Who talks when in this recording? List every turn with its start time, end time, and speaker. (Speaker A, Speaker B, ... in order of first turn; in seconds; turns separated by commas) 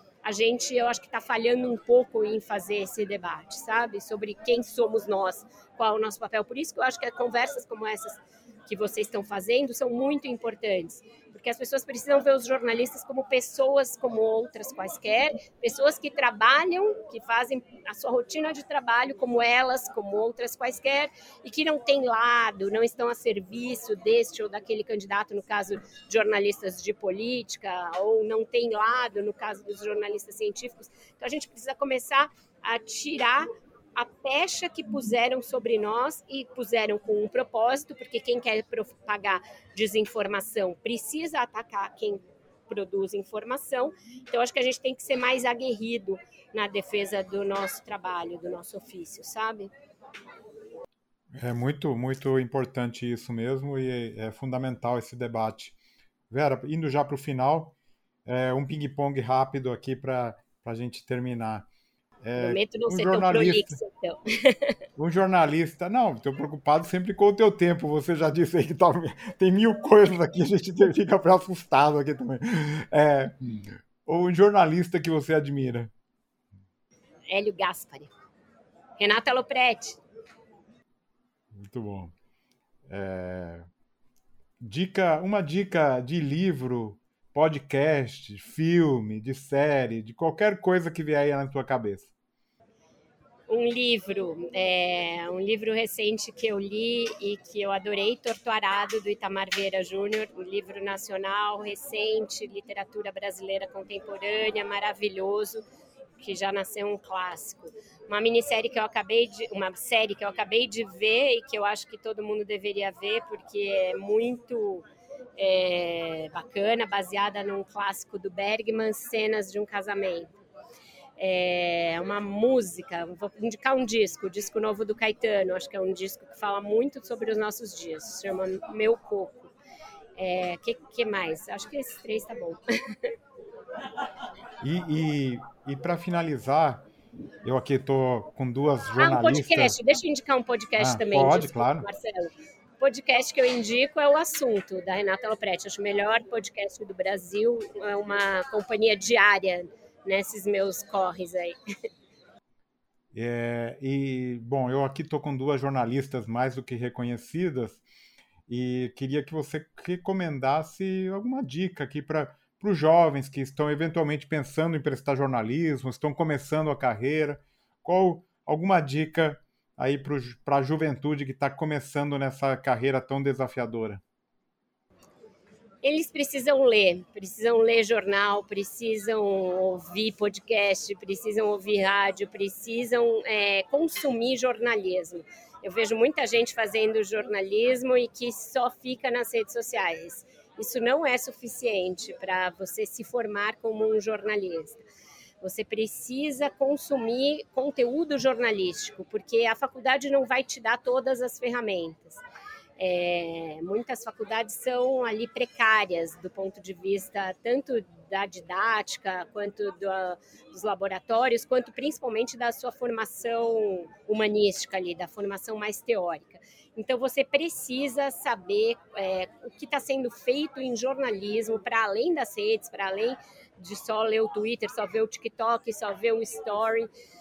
Speaker A: 0.2-49.7, Speaker B: 51.3-55.8, Speaker B: 56.3-57.7, Speaker B: 58.2-61.7, Speaker B: 62.2-63.8, Speaker A: 62.4-64.7, Speaker B: 65.0-75.9, Speaker A: 77.3-78.1, Speaker A: 79.0-80.0, Speaker B: 81.5-82.1, Speaker B: 82.9-83.7, Speaker B: 84.6-92.1, Speaker A: 93.5-105.6, Speaker A: 106.2-114.8, Speaker A: 115.4-120.3, Speaker A: 121.2-129.5, Speaker A: 130.2-133.1, Speaker B: 134.6-136.8, Speaker B: 137.4-139.8, Speaker A: 139.0-151.5, Speaker B: 140.8-141.9, Speaker B: 153.1-157.8, Speaker B: 158.5-174.0, Speaker A: 175.8-194.8, Speaker A: 195.4-202.2, Speaker A: 202.8-226.9